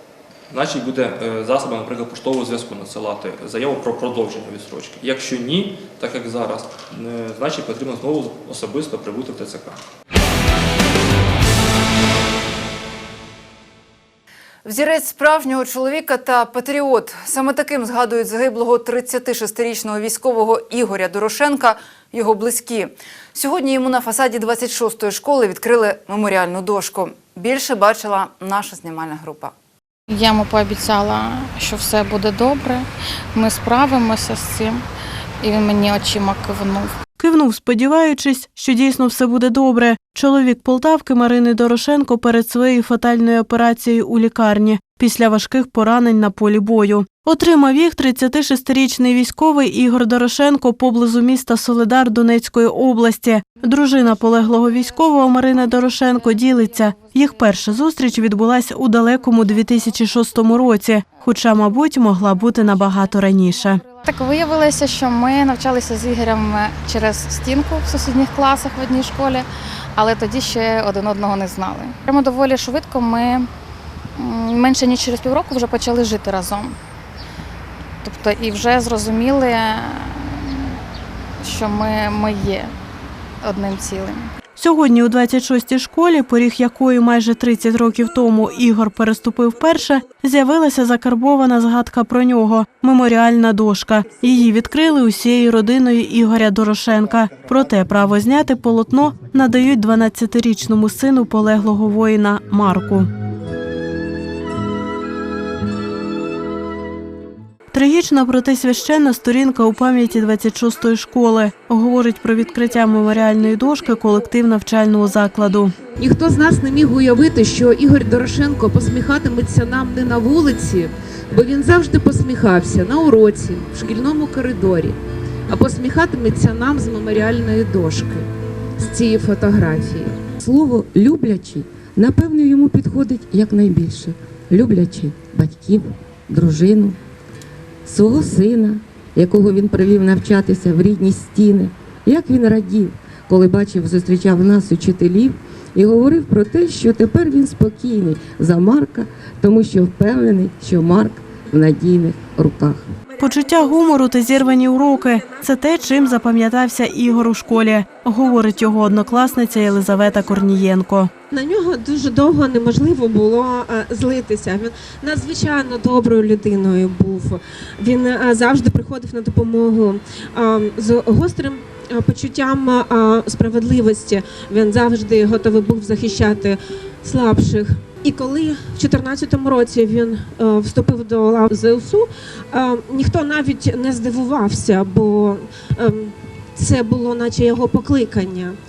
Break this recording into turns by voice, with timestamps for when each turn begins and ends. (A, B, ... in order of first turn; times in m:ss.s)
0:00.5-0:09.8 A
0:14.6-0:29.5 B
0:30.1-0:34.8 C
0:35.4-0:37.0 C
0:37.2-1:03.9 D
1:03.9-1:13.5 C
1:14.2-1:16.8 C
1:18.0-1:20.8 C
1:21.4-1:22.7 C
1:23.4-1:24.3 C
1:24.6-1:43.1 D
1:47.7-1:55.8 D
1:57.0-1:59.1 E
1:59.9-2:00.9 E
2:01.8-2:04.9 E
2:07.1-2:08.2 E
2:10.4-2:17.0 F
2:17.8-2:32.9 F
2:33.2-2:41.1 D
2:41.3-3:08.6 G